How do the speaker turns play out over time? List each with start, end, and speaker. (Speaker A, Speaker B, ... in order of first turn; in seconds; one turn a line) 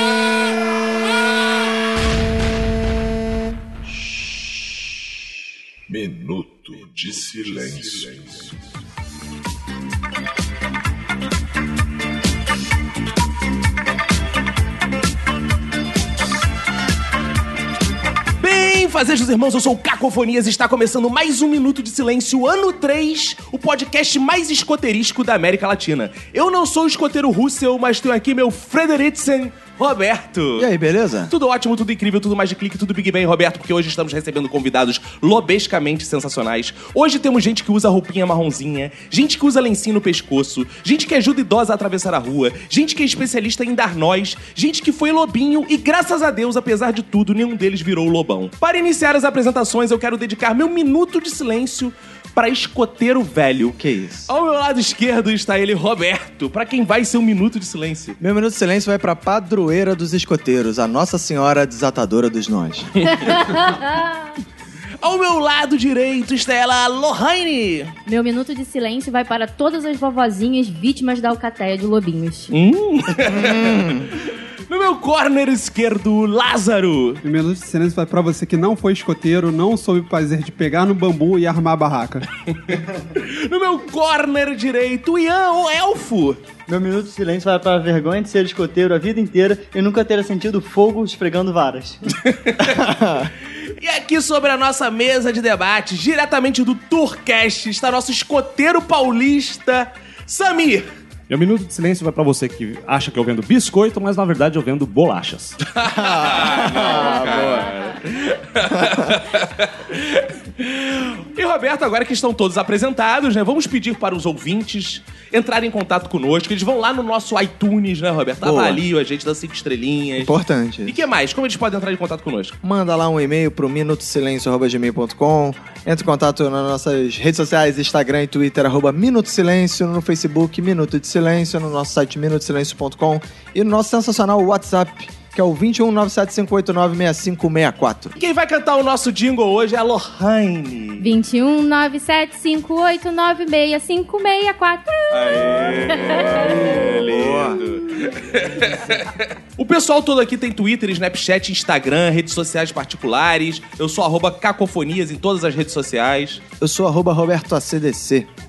Speaker A: 5.9-8.6
Speaker B: 18.4-30.7
Speaker C: 30.6-31.3
Speaker B: 31.3-58.2
Speaker C: 53.8-54.3
Speaker C: 58.2-62.9
Speaker B: 63.0-63.4
Speaker D: 63.5-64.3
Speaker B: 65.0-67.9
Speaker D: 68.1-72.5
Speaker B: 72.5-77.2
Speaker C: 73.3-74.1
Speaker E: 77.2-82.3
Speaker B: 82.7-86.4
Speaker F: 86.7-92.0
Speaker B: 92.3-92.7
Speaker C: 92.7-93.3
Speaker B: 93.8-100.9
Speaker G: 101.3-105.6
Speaker B: 105.8-120.3
Speaker C: 105.9-107.7
Speaker D: 106.9-108.0
Speaker C: 108.7-109.1
Speaker C: 118.4-118.8
Speaker C: 120.2-121.1
Speaker B: 120.9-122.6
Speaker C: 122.6-138.2
Speaker B: 138.2-141.1
Speaker D: 141.0-146.8
Speaker B: 145.1-156.4
Speaker C: 146.8-147.7
Speaker C: 156.6-158.3